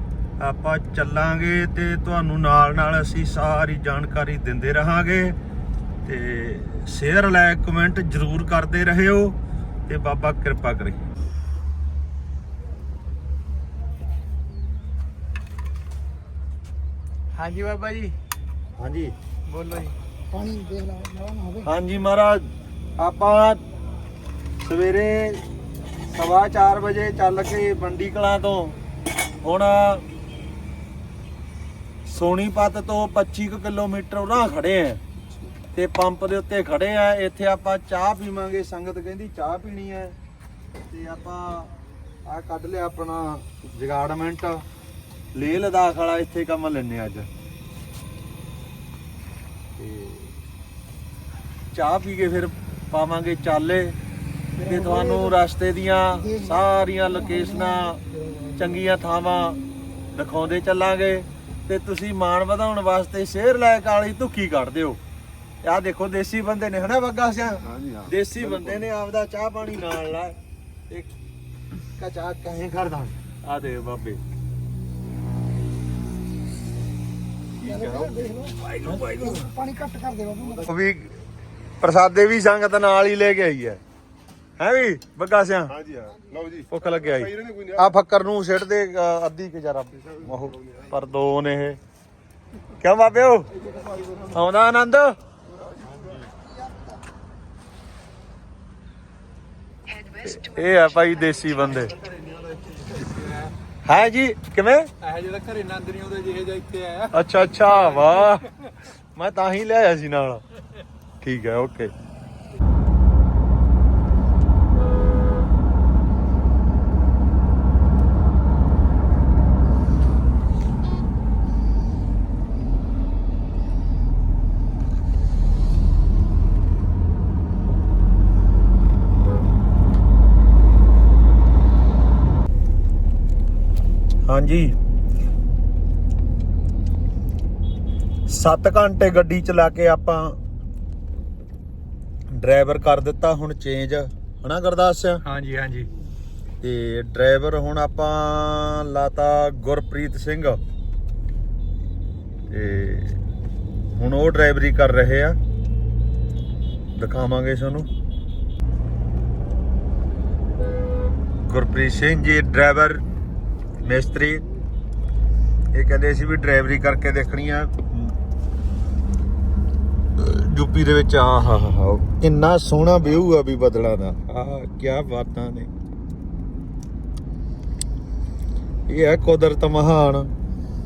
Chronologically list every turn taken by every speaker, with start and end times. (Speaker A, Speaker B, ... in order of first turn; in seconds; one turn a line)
Speaker A: 0.4-5.4
Speaker A: 6.0-9.4
Speaker A: 9.9-11.0
Speaker B: 17.3-18.2
Speaker A: 18.8-19.1
Speaker B: 19.5-20.0
Speaker C: 20.3-21.5
Speaker A: 21.5-23.6
Speaker A: 24.6-25.4
Speaker A: 26.1-28.8
Speaker A: 29.4-30.0
Speaker A: 32.0-35.0
Speaker A: 35.7-40.2
Speaker A: 40.9-41.7
Speaker A: 42.2-44.6
Speaker A: 45.3-47.3
Speaker A: 49.8-50.4
Speaker A: 51.7-54.0
Speaker A: 54.6-59.6
Speaker A: 60.1-65.0
Speaker A: 65.6-70.4
Speaker A: 72.0-74.2
Speaker A: 77.6-79.8
Speaker C: 79.7-80.5
Speaker A: 80.5-81.2
Speaker A: 81.8-83.8
Speaker A: 84.6-85.8
Speaker C: 85.9-86.5
Speaker A: 86.6-91.8
Speaker A: 92.8-93.5
Speaker A: 94.2-95.2
Speaker A: 100.0-102.0
Speaker B: 102.0-103.5
Speaker A: 103.8-104.9
Speaker B: 105.0-108.7
Speaker A: 107.1-108.5
Speaker A: 109.2-110.4
Speaker A: 111.2-111.9
Speaker A: 134.3-134.7
Speaker A: 138.3-140.4
Speaker A: 142.3-145.2
Speaker B: 145.2-145.9
Speaker A: 146.6-150.6
Speaker A: 152.5-153.2
Speaker A: 153.9-155.4
Speaker A: 156.9-157.9
Speaker A: 161.5-163.0
Speaker A: 163.8-164.4
Speaker A: 165.7-168.1
Speaker A: 170.2-175.7
Speaker A: 178.9-180.3